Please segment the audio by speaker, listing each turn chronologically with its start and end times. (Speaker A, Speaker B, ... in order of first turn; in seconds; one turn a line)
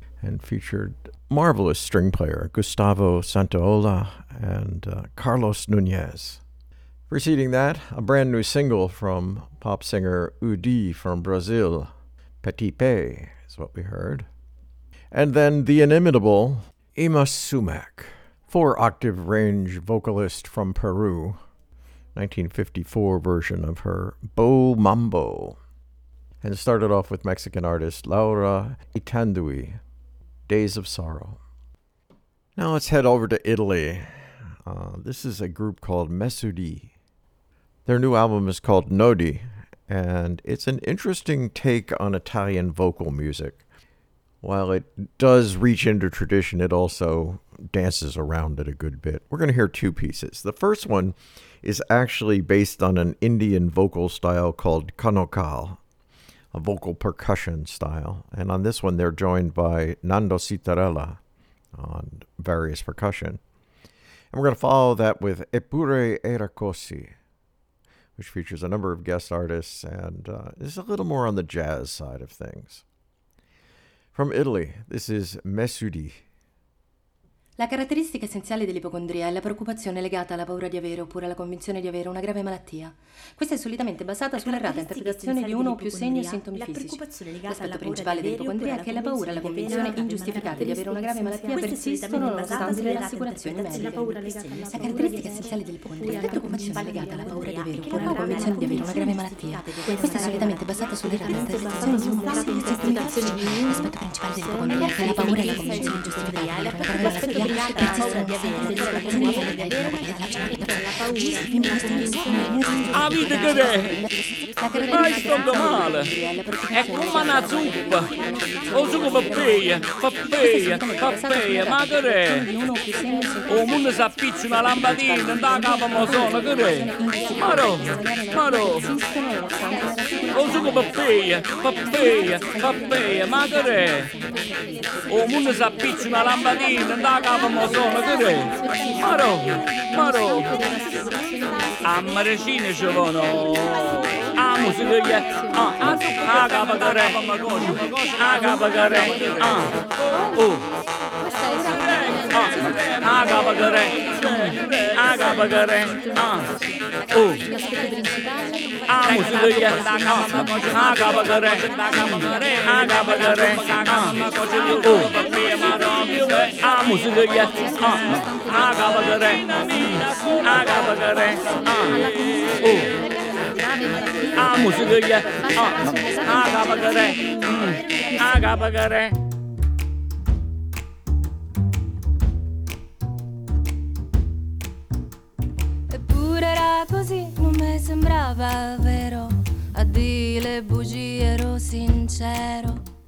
Speaker A: 0.2-6.4
Speaker A: 7.1-14.3
Speaker A: 15.1-21.4
Speaker A: 22.1-25.6
Speaker A: 26.4-29.8
Speaker A: 30.5-31.4
Speaker A: 32.6-36.9
Speaker A: 37.9-43.6
Speaker A: 44.4-55.8
Speaker A: 56.5-61.2
Speaker A: 61.8-63.4
Speaker A: 64.3-67.1
Speaker A: 68.2-72.8
Speaker A: 74.1-76.2
Speaker B: 77.6-94.0
Speaker B: 94.7-112.8
Speaker C: 112.9-114.0
Speaker C: 114.9-116.1
Speaker B: 116.1-116.7
Speaker C: 116.7-118.1
Speaker C: 118.8-122.5
Speaker B: 122.6-123.5
Speaker C: 123.5-128.9
Speaker B: 129.1-130.3
Speaker C: 130.3-134.1
Speaker C: 135.1-140.6
Speaker C: 141.8-150.6
Speaker C: 151.8-156.5
Speaker C: 157.1-157.4
Speaker C: 158.9-173.0
Speaker C: 174.3-179.2
Speaker D: 185.9-192.8